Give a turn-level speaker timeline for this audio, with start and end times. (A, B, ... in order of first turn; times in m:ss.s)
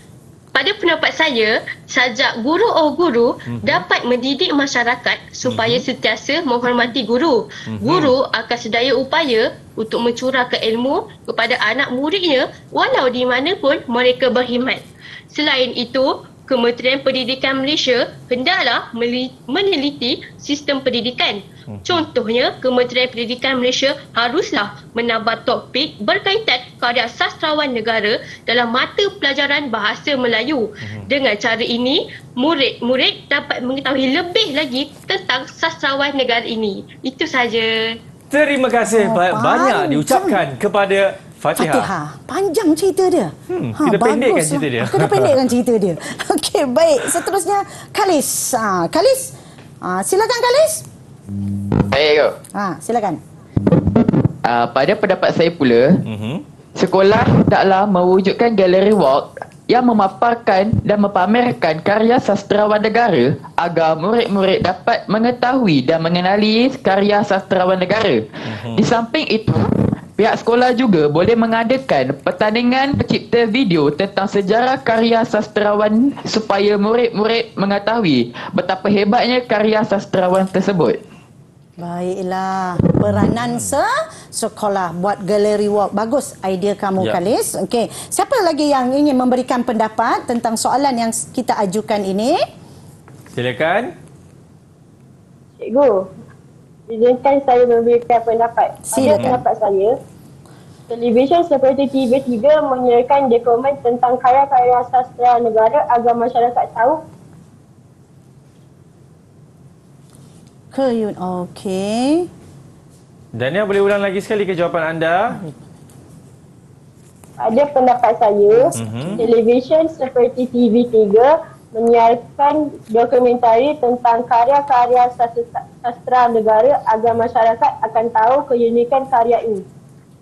0:00.5-0:38.0 A
0:03.5-0:03.8 B
0:05.5-0:05.8 B
0:07.7-0:08.1 B
0:21.7-0:22.0 B
0:38.3-0:41.9 B
0:38.9-0:40.4 C
0:41.6-0:50.9 C
0:43.5-0:45.4 B
0:51.9-0:52.4 D
0:52.6-0:53.2 C
0:54.4-0:56.0 D
0:56.1-0:56.4 B
0:56.8-1:21.0 D
1:08.5-1:08.8 B
1:21.8-1:32.4 C
1:33.3-1:33.9 B
1:35.6-1:36.1 E
1:36.9-1:40.0 E
1:38.9-1:39.4 C
1:39.0-1:39.3 B
1:40.9-1:47.0 E
1:50.7-1:52.3 C
1:53.4-1:55.5 B
1:57.4-2:09.6 E
1:58.7-1:59.3 C
1:58.8-1:59.2 B